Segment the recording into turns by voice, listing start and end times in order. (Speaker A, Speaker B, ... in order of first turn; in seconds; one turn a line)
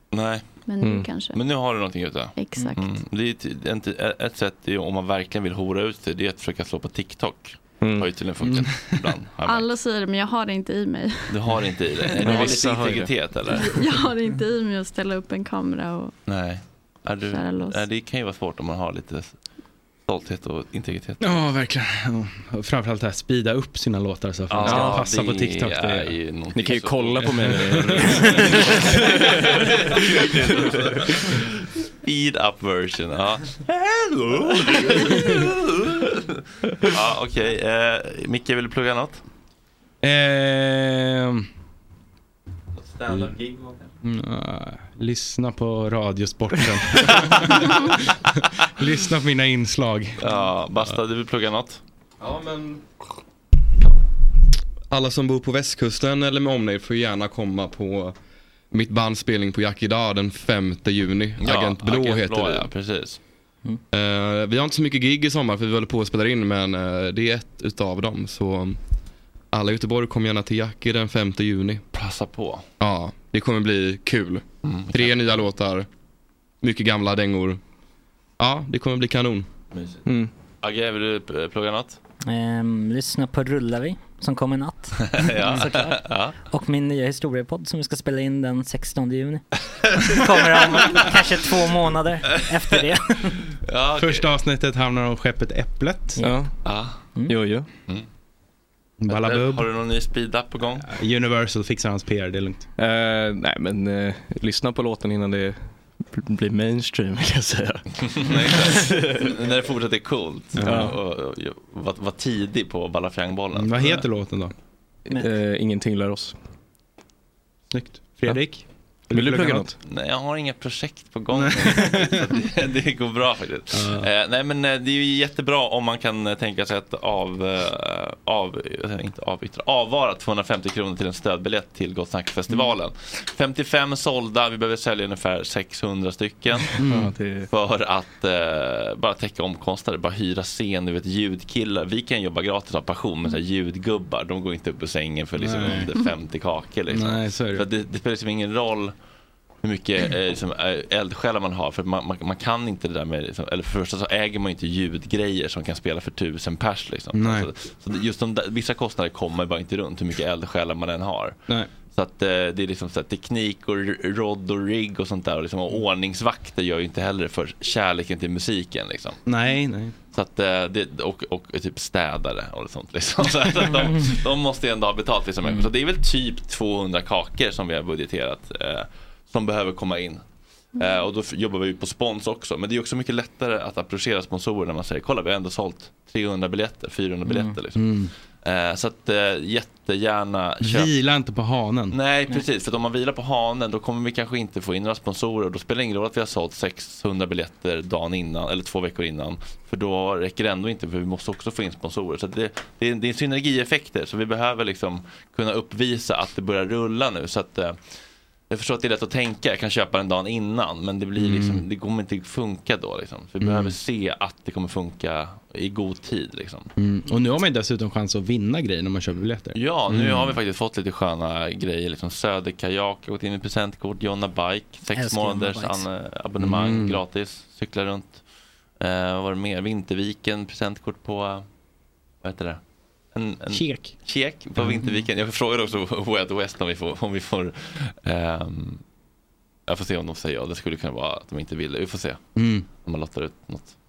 Speaker A: 0.1-0.6
Speaker B: 0.7-1.4
Speaker C: 0.8-1.1
Speaker A: 1.3-9.7
Speaker B: 2.4-2.9
Speaker C: 7.8-8.2
Speaker D: 8.4-8.9
Speaker B: 9.5-11.3
Speaker A: 11.3-13.7
Speaker C: 12.2-13.6
Speaker B: 13.7-16.1
Speaker A: 16.3-19.4
Speaker B: 17.3-17.8
Speaker A: 20.1-21.4
Speaker D: 21.2-26.1
Speaker A: 24.5-31.5
Speaker C: 24.6-25.1
Speaker C: 26.5-29.5
Speaker D: 27.2-28.4
Speaker A: 32.0-39.2
Speaker D: 40.0-41.5
Speaker A: 42.8-43.8
Speaker D: 44.0-50.9
Speaker A: 50.2-51.8
Speaker E: 52.2-52.8
Speaker E: 54.9-58.1
Speaker E: 58.7-62.7
Speaker A: 61.4-63.2
Speaker E: 63.9-68.8
Speaker E: 69.5-71.8
Speaker A: 71.9-72.6
Speaker E: 72.8-75.9
Speaker A: 74.6-75.4
Speaker E: 76.6-77.6
Speaker E: 78.4-79.5
Speaker A: 79.7-80.0
Speaker C: 80.1-80.3
Speaker A: 80.6-82.0
Speaker F: 82.3-89.4
Speaker A: 85.0-86.3
Speaker F: 90.0-93.2
Speaker A: 92.3-92.9
Speaker A: 93.6-94.3
Speaker D: 94.0-96.2
Speaker C: 96.2-96.5
Speaker A: 96.7-97.0
Speaker C: 97.3-97.7
Speaker D: 99.0-99.7
Speaker A: 99.1-100.9
Speaker D: 100.9-102.7
Speaker C: 102.8-109.2
Speaker A: 108.0-114.0
Speaker D: 110.6-111.0
Speaker C: 110.6-111.0
Speaker D: 113.5-114.5
Speaker C: 115.1-116.4
Speaker D: 117.7-119.7
Speaker C: 119.1-119.8
Speaker A: 119.8-136.7
Speaker D: 121.3-122.2
Speaker D: 123.7-124.1
Speaker C: 136.8-137.5
Speaker D: 136.8-137.1
Speaker A: 137.5-148.9
Speaker D: 145.4-145.9
Speaker D: 146.9-147.7
Speaker A: 149.6-169.2
Speaker D: 157.2-157.5
Speaker D: 169.3-169.9
Speaker A: 170.1-180.2
Speaker A: 180.8-190.9
Speaker F: 187.3-187.6
Speaker D: 187.8-188.1
Speaker D: 190.6-191.9
Speaker A: 191.9-207.8
Speaker A: 208.5-216.7
Speaker D: 211.2-211.6
Speaker D: 213.4-213.7
Speaker D: 216.8-219.6
Speaker A: 219.5-228.2
Speaker F: 224.9-225.8
Speaker D: 226.4-227.0
Speaker A: 228.8-231.4
Speaker A: 232.2-232.6
Speaker A: 233.2-238.8
Speaker D: 233.5-233.9
Speaker F: 234.8-235.1
Speaker A: 239.7-242.2
Speaker D: 242.4-242.7
Speaker A: 242.8-243.7